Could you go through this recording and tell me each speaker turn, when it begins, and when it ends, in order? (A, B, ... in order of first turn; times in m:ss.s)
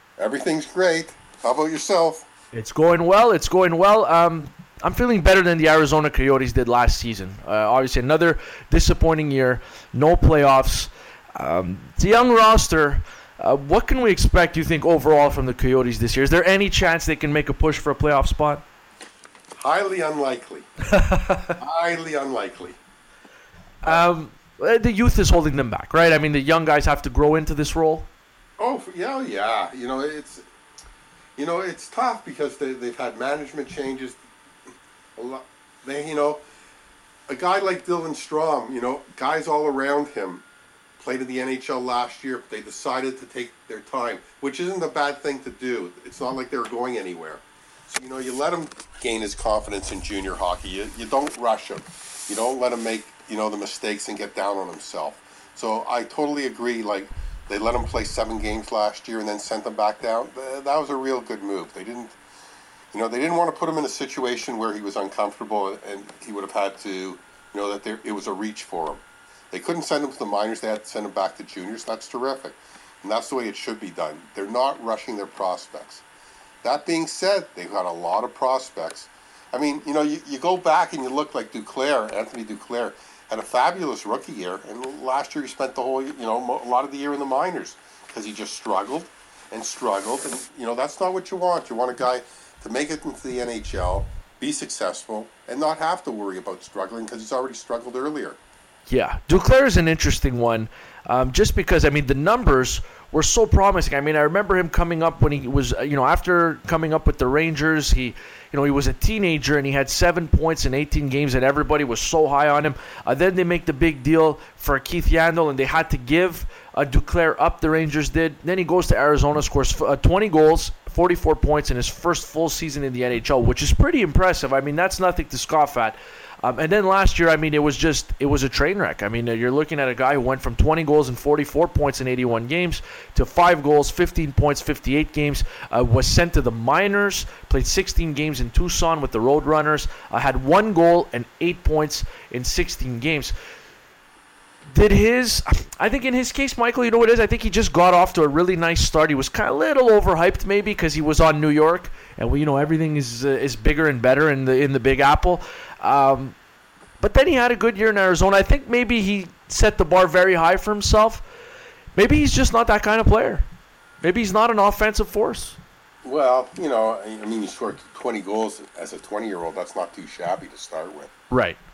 0:00.2-0:02.3 A
0:02.5-0:18.6 B
0:19.6-0:20.7 A
0:20.8-0:21.6 B
0:21.6-0:22.8 A
0:23.8-0:28.1 B
0:28.6-0:30.4 A
0:31.4-0:34.2 A
0:35.2-0:36.4 A
0:37.3-0:40.4 A
0:41.0-1:02.2 A
1:02.9-1:16.0 A
1:16.6-1:38.4 A
1:38.9-2:23.4 B
2:24.7-2:36.4 B
2:37.0-2:41.2 B
2:42.0-2:43.5 B
2:44.0-2:45.6 B
2:46.0-2:51.1 A
2:51.3-2:51.6 B